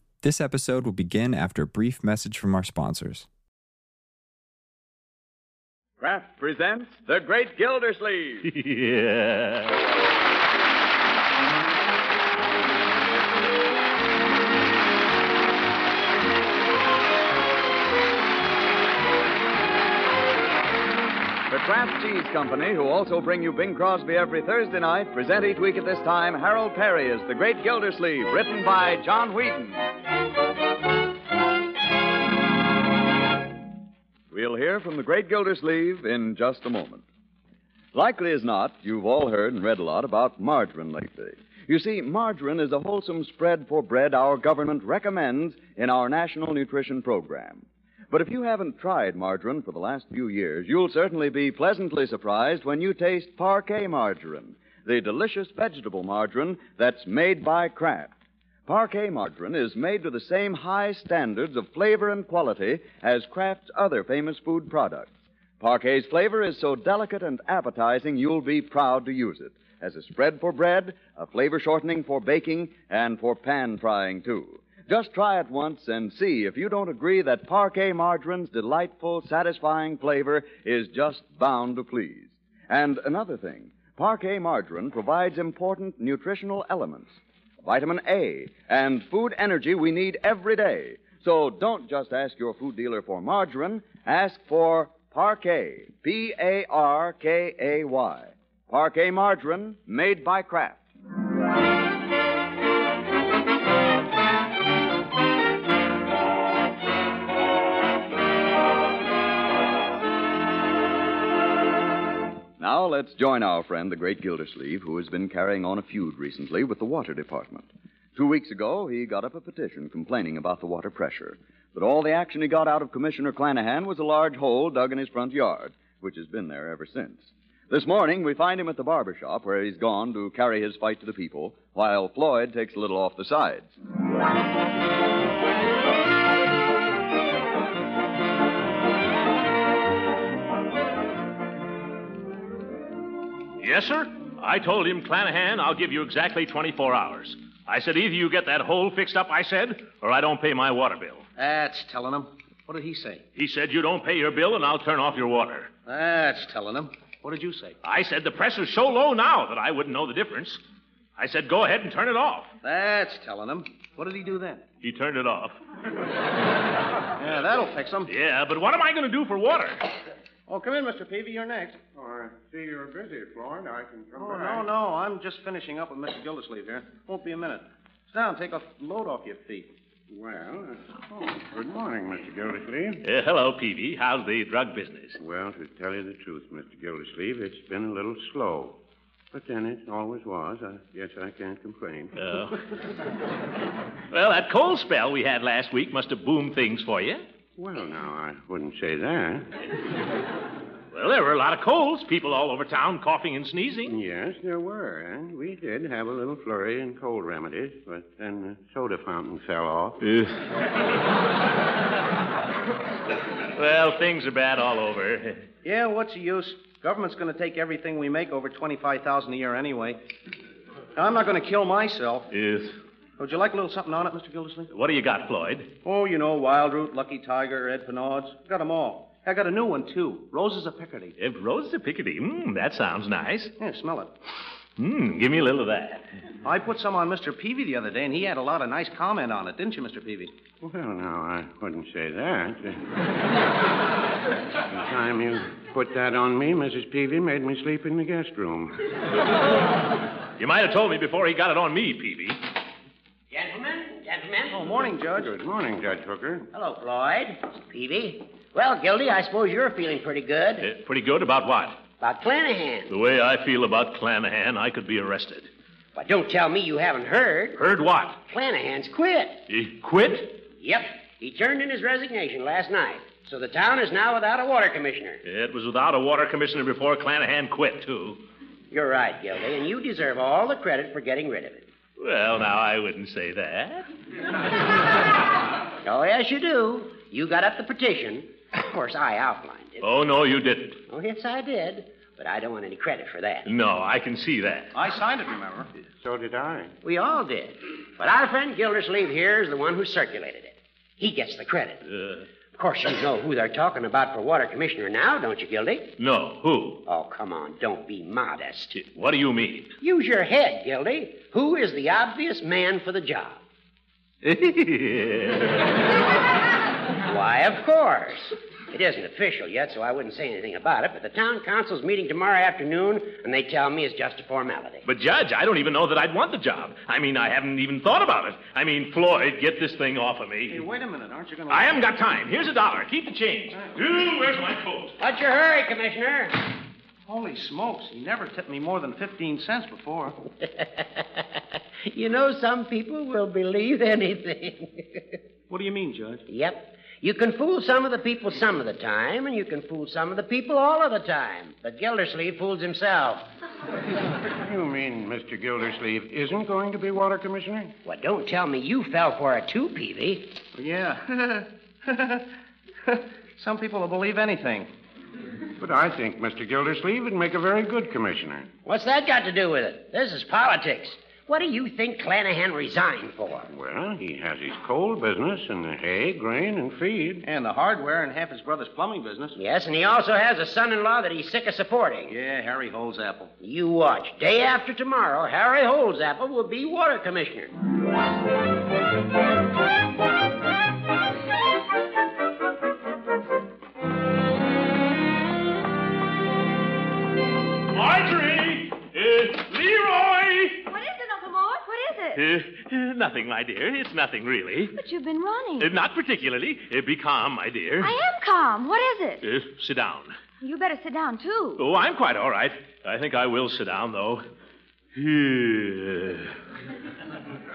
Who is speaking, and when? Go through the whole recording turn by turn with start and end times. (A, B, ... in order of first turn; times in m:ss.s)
0:00.2-0:03.3 A
0:06.0-0:08.5 B
0:08.4-0:09.8 C
0:21.5-0:29.8 B
0:34.3-0:37.0 B
0:37.9-0:58.1 B
0:58.7-1:27.1 B
1:27.6-1:40.8 B
1:52.6-2:13.7 B
2:23.6-2:31.2 C
2:31.4-2:33.2 D
2:33.4-2:35.7 C
2:35.8-2:37.8 D
2:37.8-2:40.6 C
2:41.2-2:42.5 C
2:42.6-2:44.6 D
2:44.8-2:45.6 C
2:47.2-2:48.1 D
2:48.1-2:49.8 C
2:50.5-2:51.8 D
2:51.9-2:54.7 E
2:54.2-2:59.7 D
3:00.1-3:03.0 E
3:03.0-3:05.2 C
3:05.2-3:08.8 E
3:09.3-3:12.2 E
3:12.2-3:12.6 C
3:14.1-3:17.2 C
3:17.6-3:19.5 E
3:20.9-3:23.9 C
3:23.9-3:30.0 E
3:30.0-3:30.4 C
3:33.5-3:35.5 C
3:35.6-3:40.0 D
3:41.0-3:42.3 D
3:42.3-3:42.7 C
3:43.2-3:44.7 D
3:44.7-3:45.7 C
3:45.8-3:51.1 D
3:51.2-3:53.5 C
3:53.6-3:54.1 D
3:54.8-3:56.1 C
3:56.4-4:00.3 D
4:00.6-4:02.9 E
4:04.7-4:08.8 E
4:10.4-4:12.4 C
4:13.3-4:14.7 F
4:14.5-4:15.3 D
4:15.0-4:16.5 E
4:16.5-4:20.6 F
4:20.6-4:21.8 C
4:22.0-4:22.9 F
4:22.9-4:25.5 C
4:25.9-4:27.6 F
4:27.6-4:28.2 C
4:28.3-4:29.4 F
4:29.5-4:30.3 C
4:30.6-4:35.2 F
4:35.2-4:38.2 C
4:38.7-4:41.7 F
4:42.0-4:43.9 C
4:45.8-4:49.8 F
4:49.8-4:50.8 C
4:50.9-4:53.5 F
4:53.4-4:54.7 C
4:54.7-4:55.7 D
4:56.0-4:56.7 E
4:56.8-5:01.8 F
5:01.9-5:02.2 C
5:02.6-5:05.9 F
5:06.0-5:06.8 C
5:06.8-5:08.8 F
5:08.7-5:09.7 C
5:09.8-5:13.4 F
5:14.2-5:15.7 C
5:17.0-5:24.8 F
5:24.8-5:30.6 C
5:30.5-5:31.9 D
5:31.5-5:35.0 C
5:35.0-5:36.4 F
5:37.0-5:40.2 D
5:40.4-5:45.2 F
5:45.5-5:46.2 D
5:46.3-5:53.2 F
5:54.4-5:57.7 E
5:57.8-6:00.3 F
6:00.5-6:02.2 D
6:02.9-6:04.7 D
6:05.6-6:08.5 E
6:08.6-6:13.5 F
6:13.5-6:17.2 E
6:17.2-6:19.4 D
6:19.4-6:22.1 F
6:22.1-6:23.3 D
6:23.4-6:27.5 F
6:37.7-6:40.6 C
6:40.7-6:42.2 G
6:42.1-6:44.7 C
6:44.7-6:45.7 G
6:45.6-6:47.9 C
6:47.8-6:49.2 G
6:49.2-6:50.2 C
6:50.4-6:51.6 G
6:51.6-6:54.2 C
6:54.9-6:56.3 C